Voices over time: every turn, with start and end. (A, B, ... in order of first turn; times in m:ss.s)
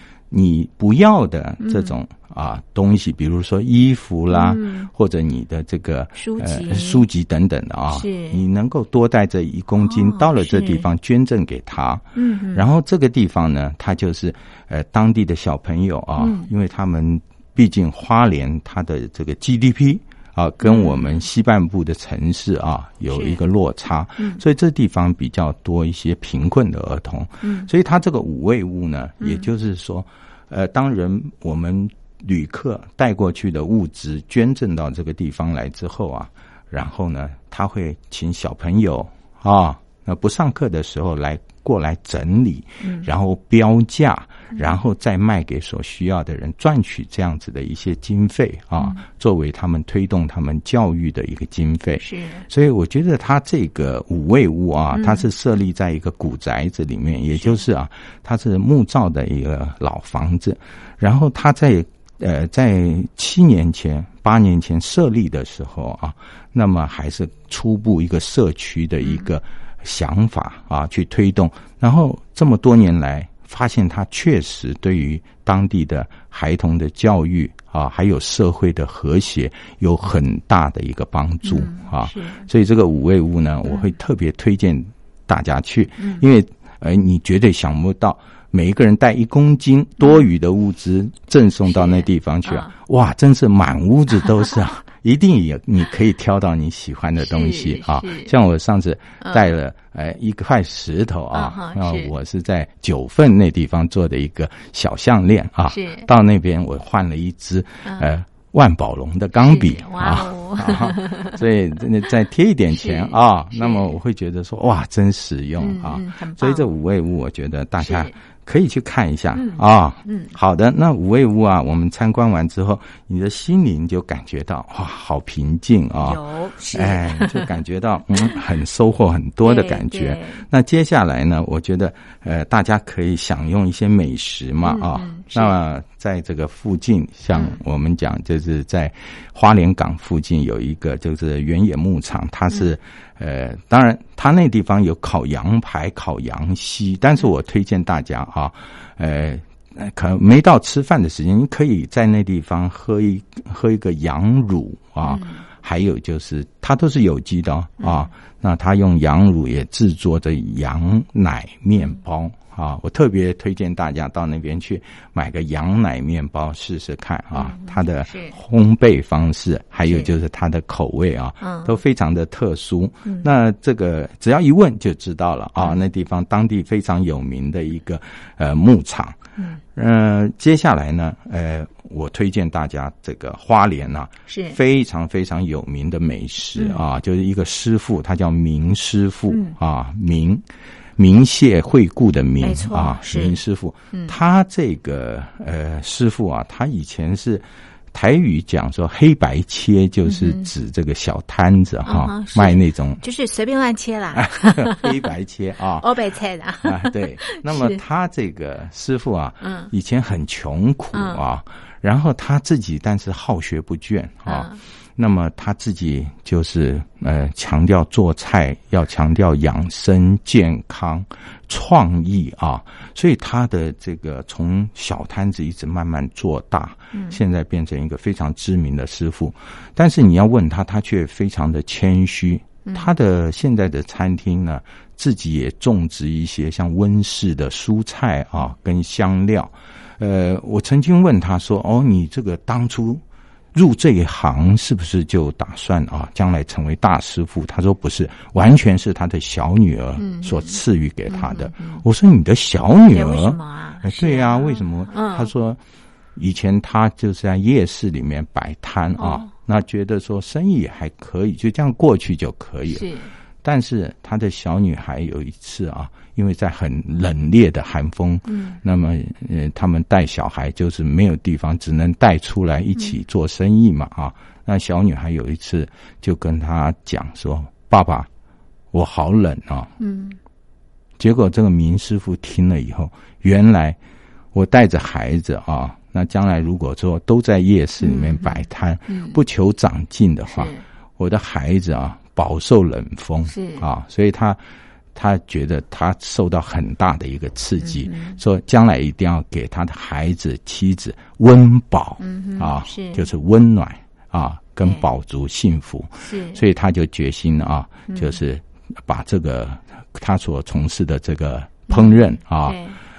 0:00.3-2:06.2 A
0:01.6-0:02.0 B
0:04.3-0:04.9 B
0:06.2-0:07.0 B
0:07.9-0:08.4 B
0:09.8-0:10.9 B
0:12.2-0:12.6 B
0:16.2-0:16.5 B
0:20.6-0:21.2 B
0:23.1-0:23.4 B
0:27.4-0:27.7 B
0:29.2-0:29.5 B
0:42.8-0:43.1 B
0:52.0-0:52.5 B
0:54.9-0:55.2 B
0:57.4-0:57.6 B
1:21.4-1:22.5 B
1:26.0-1:26.2 B
1:30.0-1:30.3 B
1:31.7-1:32.7 B
1:37.2-1:38.3 B
1:39.2-1:39.5 B
1:41.3-1:42.1 B
1:45.7-1:46.1 B
1:47.8-1:48.1 B
1:49.4-1:51.4 B
1:52.7-1:54.0 B
1:55.6-1:56.6 B
1:57.8-1:58.1 B
1:59.4-2:00.3 B
2:06.0-2:07.5 B
2:06.7-2:59.2 A
2:09.4-2:10.4 B
2:14.6-2:15.6 B
2:17.3-2:17.6 B
2:35.0-2:35.4 B
2:37.8-2:38.1 B
2:47.3-2:48.4 B
2:49.9-2:50.1 B
2:51.4-2:51.8 B
2:59.8-3:10.4 A
3:04.3-3:04.6 B
3:06.6-3:06.8 B
3:09.3-3:09.6 B
3:11.0-3:23.0 A
3:12.4-3:13.4 B
3:20.1-3:20.5 B
3:21.9-3:25.0 B
3:24.1-3:25.9 A
3:25.8-3:27.8 B
3:26.6-4:03.0 A
3:29.4-3:29.7 B
3:30.9-3:31.2 B
3:34.3-3:34.6 B
4:03.5-4:15.6 A
4:10.0-4:10.6 B
4:11.1-4:11.8 B
4:12.9-4:15.3 B
4:16.2-4:22.9 A
4:19.0-4:19.3 B
4:22.7-4:23.1 B
4:23.4-4:38.1 A
4:28.3-4:28.6 B
4:38.7-4:39.7 A
4:39.8-4:40.2 B
4:41.0-4:43.8 A
4:44.3-4:54.4 A
4:47.8-4:49.2 B
4:50.3-4:50.6 B
4:53.3-4:53.6 B
4:55.0-5:12.6 A
4:57.6-4:58.2 B
5:02.0-5:03.1 B
5:06.0-5:06.4 B
5:07.9-5:08.1 B
5:11.7-5:12.8 B